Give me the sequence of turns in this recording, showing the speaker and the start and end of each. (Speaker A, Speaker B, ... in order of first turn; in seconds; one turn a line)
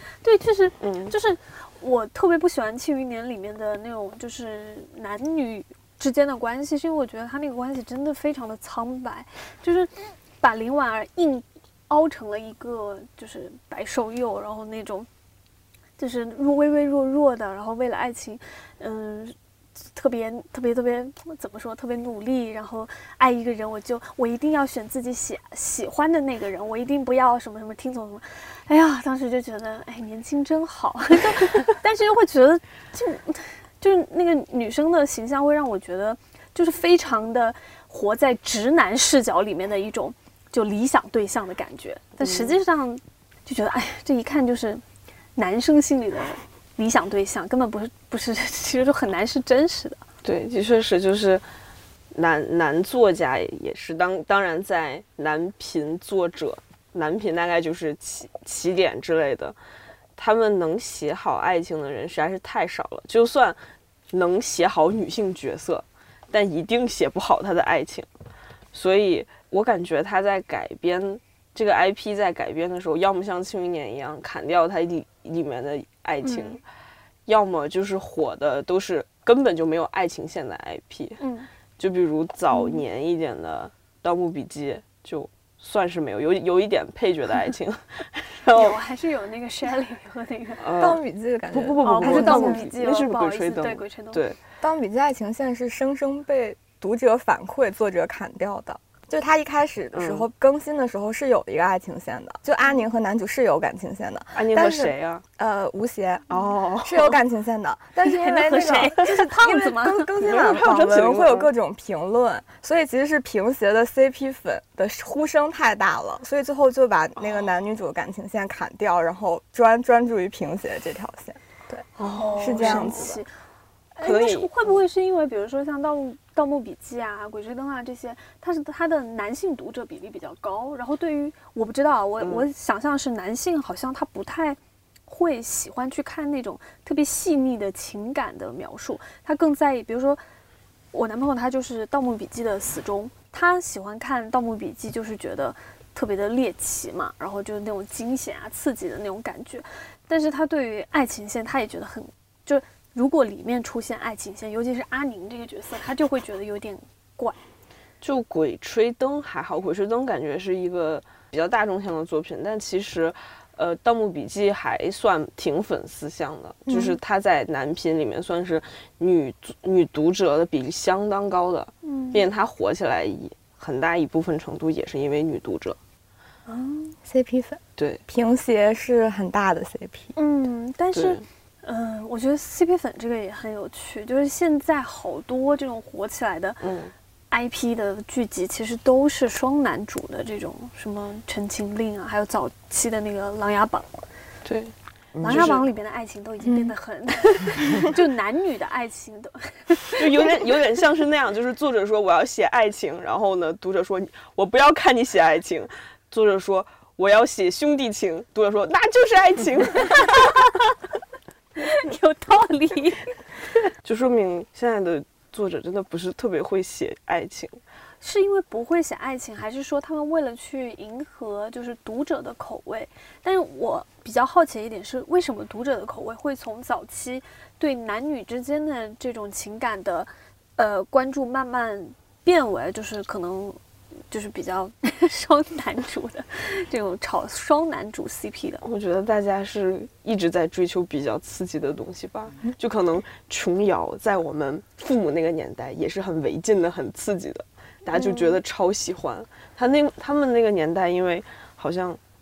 Speaker A: 0.2-15.1
Speaker B: 0.8-1.1
Speaker A: 16.0-44.8
Speaker B: 42.2-42.6
Speaker A: 45.4-50.0
Speaker B: 50.2-51.4
Speaker B: 52.1-59.5
Speaker B: 60.2-68.1
Speaker B: 68.7-76.6
Speaker A: 76.2-76.6
Speaker B: 77.2-81.2
Speaker A: 81.2-81.5
Speaker B: 81.8-88.8
Speaker A: 88.5-90.7
Speaker B: 90.6-94.4
Speaker C: 90.8-92.6
Speaker A: 91.8-94.2
Speaker C: 94.6-121.8
Speaker B: 99.9-100.3
Speaker B: 104.3-105.2
Speaker B: 106.3-107.2
Speaker A: 108.0-110.1
Speaker B: 110.2-111.5
Speaker B: 117.2-117.5
Speaker A: 122.0-123.3
Speaker B: 122.2-123.1
Speaker C: 122.4-123.2
Speaker A: 123.9-140.2
Speaker B: 124.0-124.8
Speaker B: 132.2-132.5
Speaker A: 140.9-157.4
Speaker B: 158.0-175.8
Speaker C: 166.7-167.0
Speaker A: 171.8-172.3
Speaker A: 176.5-177.0
Speaker C: 177.0-180.1
Speaker B: 177.8-178.0
Speaker A: 180.2-186.6
Speaker B: 180.9-181.2
Speaker B: 186.6-186.9
Speaker A: 187.3-193.9
Speaker B: 194.4-195.6
Speaker A: 195.2-200.3
Speaker C: 196.4-196.7
Speaker B: 200.0-210.6
Speaker A: 211.6-213.2
Speaker B: 213.8-217.6
Speaker A: 218.0-238.6
Speaker B: 238.6-252.0
Speaker A: 247.9-248.4